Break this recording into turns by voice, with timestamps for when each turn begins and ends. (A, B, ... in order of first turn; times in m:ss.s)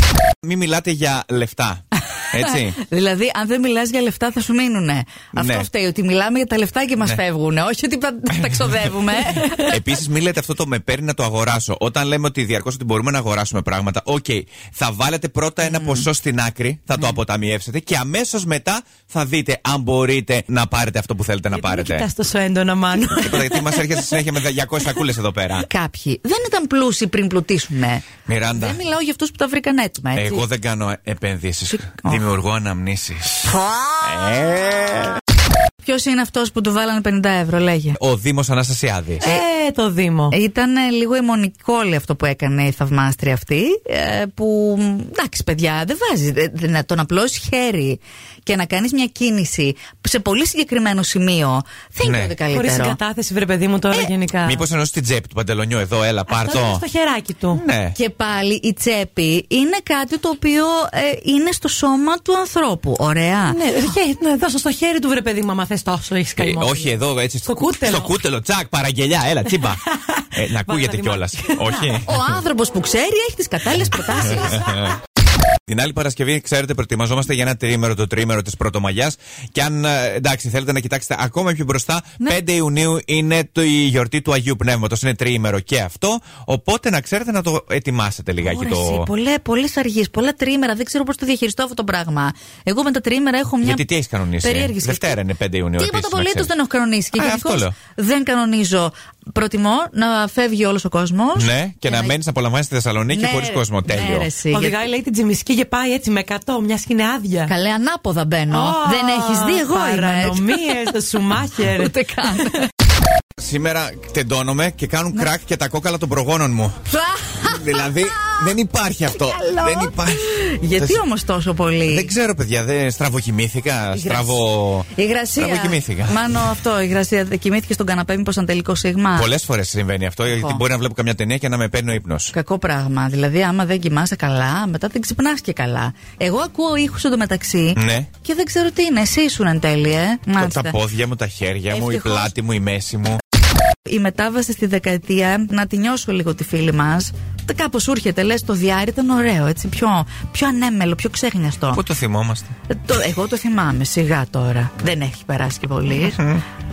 0:00.4-0:02.8 A
0:02.4-0:09.8 B
0:05.3-0:05.7 A
0:08.4-0:22.1 A
0:15.6-0:16.1 B
0:21.5-0:23.8 C
0:23.1-0:25.7 A
0:25.6-0:30.4 B
0:28.3-0:28.8 A
0:30.2-0:35.2 A
0:31.7-0:32.2 B
0:33.5-0:34.5 B
0:35.8-0:38.0 B
0:38.0-0:39.3 A
0:39.2-0:40.4 C
0:40.3-0:53.0 B
0:52.0-0:52.4 A
0:52.5-0:54.6 C
0:54.4-0:56.8 A
0:56.3-0:57.6 C
0:57.5-0:58.0 A
0:58.0-1:03.6 B
1:03.5-1:08.2 C
1:06.4-1:09.8 A
1:09.5-1:12.0 C
1:10.3-1:12.4 A
1:12.0-1:15.0 B
1:14.2-1:15.0 A
1:15.7-1:29.1 A
1:28.4-1:33.9 B
1:33.6-1:36.5 A
1:34.4-1:35.2 B
1:35.8-1:42.2 B
1:37.2-1:37.8 A
1:41.4-1:44.3 A
1:43.1-1:44.8 B
1:44.5-1:47.5 C
1:47.5-1:50.8 B
1:48.5-1:52.6 C
1:51.6-1:52.7 B
1:53.4-1:56.8 A
1:56.9-1:58.5 B
1:57.4-2:00.3 A
1:59.2-2:02.1 B
2:01.9-2:06.4 A
2:03.9-2:09.3 B
2:09.2-2:12.3 A
2:10.2-2:10.6 B
2:12.3-2:20.8 B
2:17.8-2:18.1 A
2:20.4-2:23.2 A
2:21.7-2:22.3 B
2:23.9-2:31.8 B
2:31.7-2:32.5 A
2:32.7-2:36.4 B